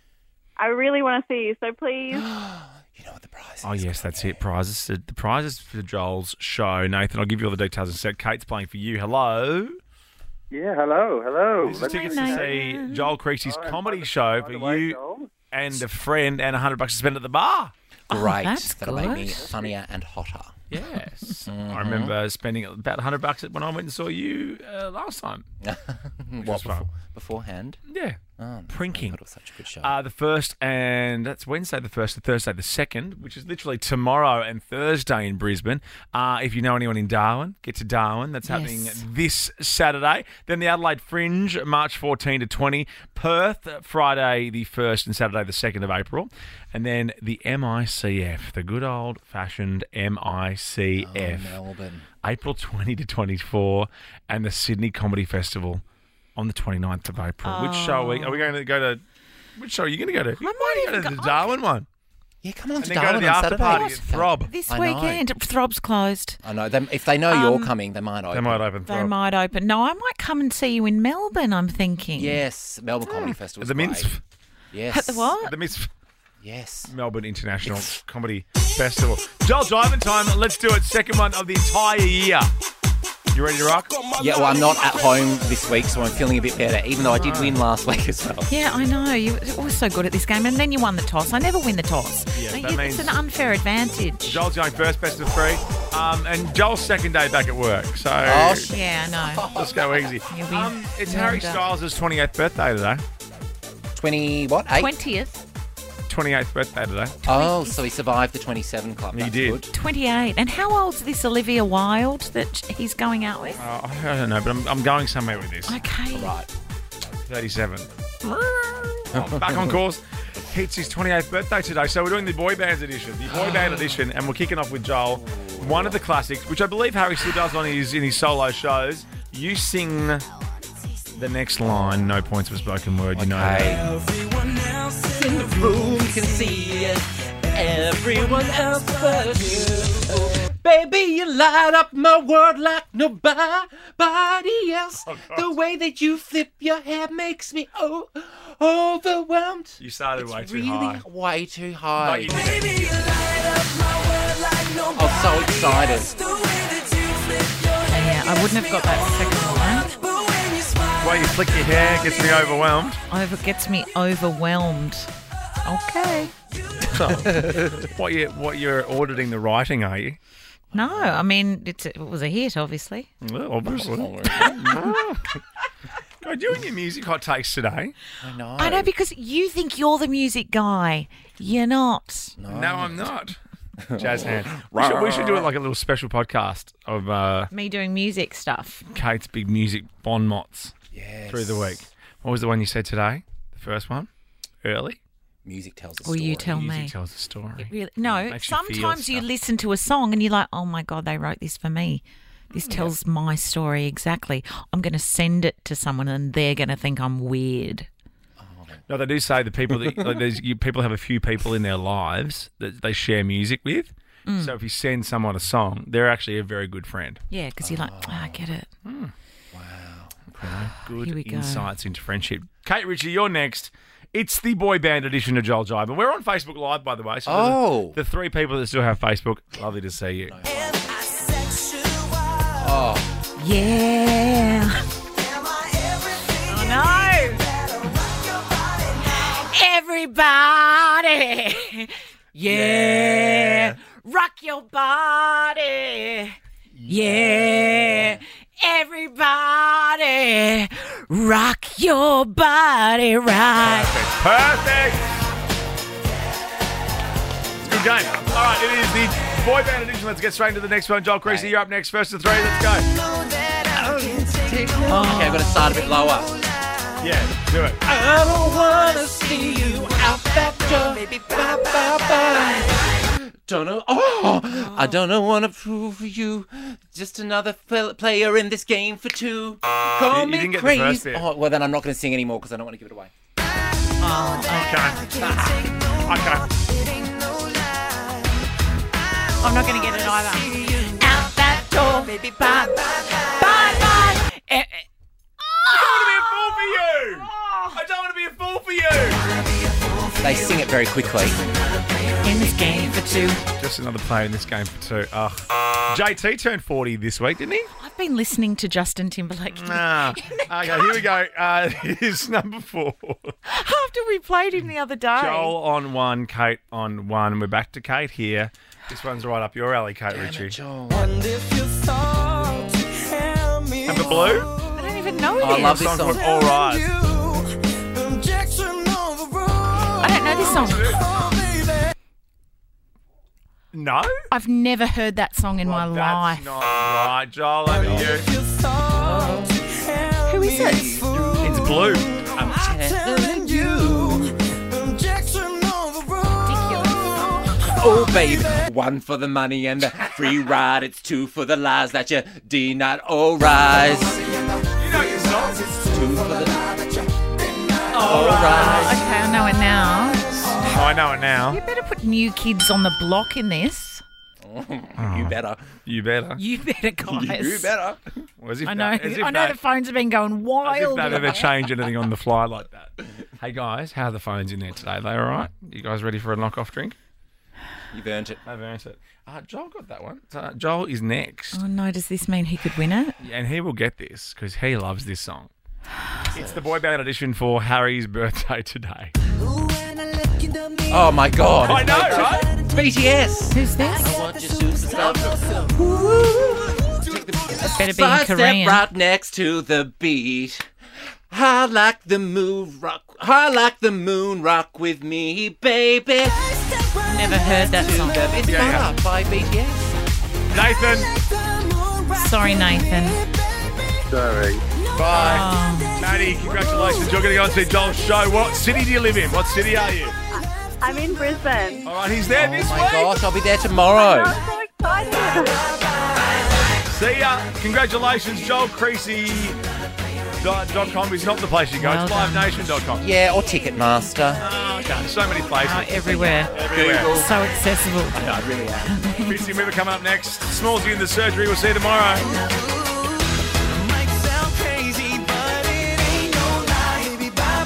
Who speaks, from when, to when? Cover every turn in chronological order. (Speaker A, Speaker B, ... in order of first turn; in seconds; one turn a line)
Speaker A: 0.6-2.2
Speaker B: 2.1-4.4
Speaker C: 3.6-9.8
Speaker D: 10.5-12.5
Speaker C: 11.6-15.0
Speaker E: 11.8-13.1
Speaker D: 13.4-15.3
Speaker C: 15.5-17.7
Speaker E: 18.1-19.5
Speaker B: 18.1-20.6
Speaker C: 20.7-25.4
Speaker B: 21.4-22.1
Speaker B: 25.6-27.8
Speaker C: 26.4-26.9
Speaker C: 27.9-29.2
Speaker B: 28.4-29.9
Speaker C: 29.8-51.6
Speaker E: 38.5-39.0
Speaker B: 51.0-52.1
Speaker C: 52.2-55.8
Speaker C: 56.4-59.0
Speaker E: 57.4-58.5
Speaker C: 59.6-61.9
Speaker E: 60.4-61.5
Speaker B: 62.4-65.2
Speaker C: 62.8-64.5
Speaker E: 63.6-66.4
Speaker B: 66.4-68.6
Speaker E: 67.3-67.7
Speaker C: 68.3-69.1
Speaker E: 68.9-72.4
Speaker B: 72.2-74.1
Speaker C: 73.2-74.2
Speaker B: 74.7-75.3
Speaker E: 74.9-75.6
Speaker C: 75.4-75.9
Speaker B: 76.4-76.9
Speaker C: 76.9-82.5
Speaker C: 83.3-84.0
Speaker B: 84.1-88.5
Speaker C: 87.1-87.6
Speaker E: 88.5-94.4
Speaker C: 92.3-93.2
Speaker C: 94.3-98.7
Speaker B: 98.2-100.0
Speaker E: 98.7-99.5
Speaker C: 99.5-103.0
Speaker E: 100.3-101.7
Speaker B: 103.9-104.9
Speaker E: 104.7-105.4
Speaker C: 106.1-107.2
Speaker E: 107.2-107.9
Speaker B: 107.2-109.7
Speaker C: 109.1-109.6
Speaker E: 109.7-113.6
Speaker C: 113.6-116.4
Speaker E: 115.7-116.3
Speaker C: 117.2-130.2
Speaker B: 119.1-119.8
Speaker B: 123.3-124.0
Speaker B: 125.2-126.0
Speaker C: 131.1-133.9
Speaker B: 131.6-132.1
Speaker B: 133.1-133.9
Speaker B: 134.9-153.4
Speaker C: 145.1-145.5
Speaker C: 149.8-151.0
Speaker C: 152.0-152.8
Speaker B: 154.9-156.4
Speaker E: 157.8-160.0
Speaker C: 161.0-163.0
Speaker E: 163.1-165.1
Speaker E: 165.6-166.3
Speaker C: 166.8-170.2
Speaker B: 170.7-171.3
Speaker E: 170.7-173.1
Speaker C: 173.2-175.4
Speaker B: 173.6-174.7
Speaker C: 176.2-177.9
Speaker B: 178.2-178.9
Speaker E: 178.6-182.3
Speaker B: 182.4-183.1
Speaker C: 182.5-183.4
Speaker B: 183.8-185.5
Speaker C: 184.0-187.5
Speaker E: 187.5-188.8
Speaker C: 188.8-190.7
Speaker B: 190.9-191.8
Speaker C: 191.3-194.1
Speaker C: 194.6-195.0
Speaker B: 195.4-196.7
Speaker E: 196.0-196.9
Speaker C: 196.5-199.3
Speaker E: 197.6-207.9
Speaker C: 202.5-202.9
Speaker B: 208.4-208.8
Speaker C: 208.9-217.2
Speaker E: 214.2-214.5
Speaker E: 217.3-218.7
Speaker B: 217.6-218.4
Speaker C: 218.8-219.1
Speaker B: 219.5-220.7
Speaker C: 220.4-230.4
Speaker E: 220.9-221.7
Speaker B: 227.2-228.0
Speaker B: 230.3-231.1
Speaker B: 232.5-233.1
Speaker E: 233.4-234.7
Speaker E: 236.3-237.5
Speaker E: 238.9-253.9
Speaker B: 242.4-243.7
Speaker B: 247.1-248.2
Speaker C: 253.6-255.1
Speaker C: 257.6-262.9
Speaker B: 261.2-261.5
Speaker B: 263.2-266.4
Speaker E: 264.9-265.6
Speaker C: 267.0-267.8
Speaker B: 267.8-283.1
Speaker C: 280.0-281.2
Speaker E: 284.0-284.9
Speaker C: 284.6-286.5
Speaker B: 285.2-285.7
Speaker E: 289.4-294.9
Speaker E: 295.4-297.8
Speaker C: 295.6-299.2
Speaker B: 300.1-301.4
Speaker E: 302.2-303.4
Speaker C: 303.6-307.7
Speaker E: 307.7-311.0
Speaker C: 309.5-313.3
Speaker E: 313.4-315.5
Speaker C: 315.1-320.6
Speaker B: 320.1-321.4
Speaker C: 323.8-324.5
Speaker B: 323.9-324.5
Speaker E: 324.7-326.0
Speaker B: 325.4-326.3
Speaker C: 325.5-326.9
Speaker E: 329.9-330.9
Speaker C: 330.4-331.1
Speaker C: 333.7-334.1
Speaker E: 334.3-336.5
Speaker C: 335.6-338.3
Speaker B: 337.8-338.1
Speaker B: 338.6-339.9
Speaker E: 340.2-341.0
Speaker B: 340.4-341.4
Speaker C: 341.4-342.1
Speaker B: 342.2-344.4
Speaker E: 346.4-347.6
Speaker B: 347.6-354.3
Speaker C: 354.7-355.7
Speaker B: 355.7-357.2
Speaker C: 357.9-359.0
Speaker B: 357.9-359.0
Speaker E: 358.4-360.7
Speaker C: 360.5-361.6
Speaker E: 361.5-364.0
Speaker B: 364.4-365.8
Speaker C: 365.0-366.4
Speaker E: 366.4-367.7
Speaker B: 367.0-368.2
Speaker C: 368.4-369.6
Speaker E: 368.6-371.6
Speaker C: 370.6-376.9
Speaker B: 371.1-371.5
Speaker B: 377.9-378.4
Speaker C: 378.4-381.6
Speaker E: 381.5-383.2
Speaker C: 383.2-385.5
Speaker C: 386.3-389.1
Speaker B: 386.3-386.6
Speaker B: 390.9-400.6
Speaker C: 391.6-392.5
Speaker E: 393.5-394.1
Speaker E: 397.8-398.8
Speaker B: 401.3-406.7
Speaker E: 407.0-408.4
Speaker B: 407.6-409.9
Speaker C: 408.4-408.9
Speaker C: 410.5-411.1
Speaker E: 412.1-413.2
Speaker D: 414.1-414.6
Speaker C: 414.9-420.1
Speaker E: 415.1-416.0
Speaker A: 420.3-421.8
Speaker C: 421.8-423.2
Speaker B: 422.3-424.4
Speaker A: 423.9-425.7
Speaker C: 426.9-429.6
Speaker C: 430.4-433.0
Speaker E: 431.8-432.7
Speaker B: 433.0-434.4
Speaker C: 434.4-437.2
Speaker E: 435.6-436.5
Speaker B: 436.5-437.3
Speaker E: 437.1-439.4
Speaker B: 438.1-438.9
Speaker C: 439.2-442.4